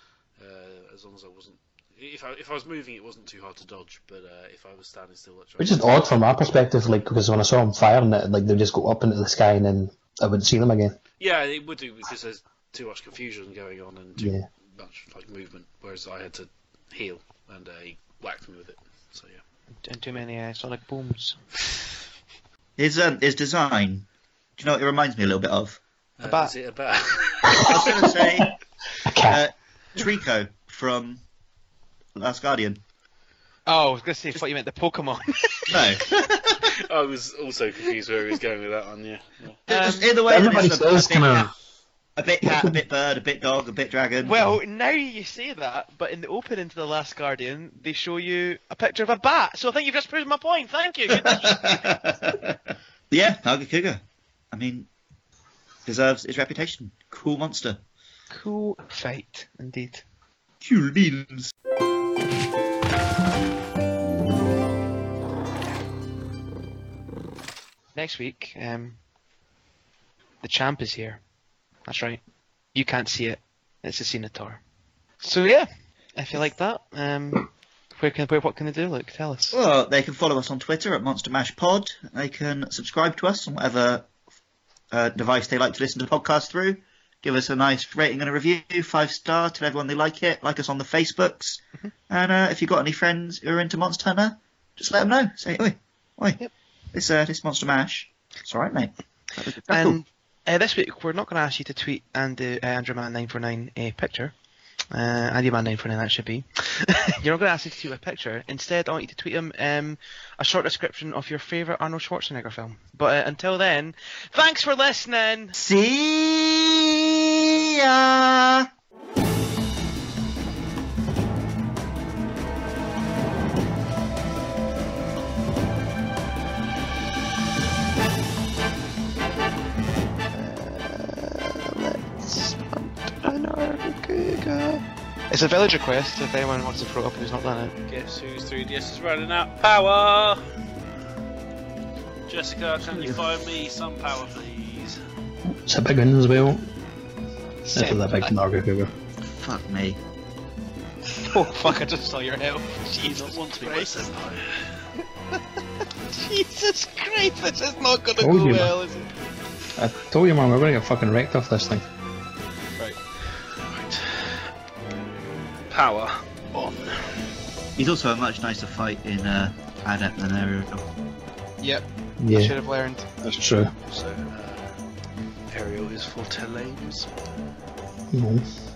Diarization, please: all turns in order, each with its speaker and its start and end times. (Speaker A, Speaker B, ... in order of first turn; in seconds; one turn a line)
Speaker A: 0.4-6.0
Speaker B: 5.6-11.0
Speaker A: 11.2-19.4
Speaker B: 14.2-14.4
Speaker C: 19.8-21.4
Speaker D: 22.8-24.1
Speaker D: 24.6-25.8
Speaker A: 26.2-27.6
Speaker C: 26.2-26.5
Speaker B: 27.5-27.8
Speaker D: 27.6-28.5
Speaker B: 29.1-29.4
Speaker D: 29.3-31.2
Speaker D: 32.1-32.8
Speaker C: 33.6-35.8
Speaker D: 35.7-36.6
Speaker A: 36.6-39.6
Speaker C: 39.7-40.2
Speaker D: 39.7-41.5
Speaker B: 40.3-41.5
Speaker D: 42.1-44.4
Speaker C: 44.2-51.9
Speaker D: 51.2-52.5
Speaker D: 53.1-54.9
Speaker D: 55.9-57.8
Speaker C: 58.3-60.0
Speaker D: 60.6-61.5
Speaker C: 68.0-69.0
Speaker C: 70.4-71.2
Speaker C: 71.8-72.2
Speaker C: 72.7-74.6
Speaker C: 75.2-79.5
Speaker D: 79.5-84.1
Speaker D: 84.9-96.4
Speaker D: 96.9-100.0
Speaker C: 99.7-104.3
Speaker C: 104.9-115.6
Speaker D: 115.6-117.0
Speaker D: 117.5-118.7
Speaker C: 130.3-137.7
Speaker A: 137.9-140.4
Speaker A: 142.3-145.0
Speaker D: 142.8-143.2
Speaker B: 145.7-146.7
Speaker C: 147.6-148.3
Speaker B: 147.7-148.9
Speaker D: 149.3-150.0
Speaker C: 151.3-154.1
Speaker A: 153.0-154.8
Speaker C: 156.1-159.1
Speaker B: 158.2-158.7
Speaker B: 159.8-161.8
Speaker A: 163.7-164.5
Speaker A: 165.7-167.1
Speaker D: 167.8-170.8
Speaker C: 171.6-173.1
Speaker B: 172.2-172.6
Speaker B: 173.2-173.7
Speaker A: 173.9-174.7
Speaker A: 175.5-177.1
Speaker B: 178.1-178.4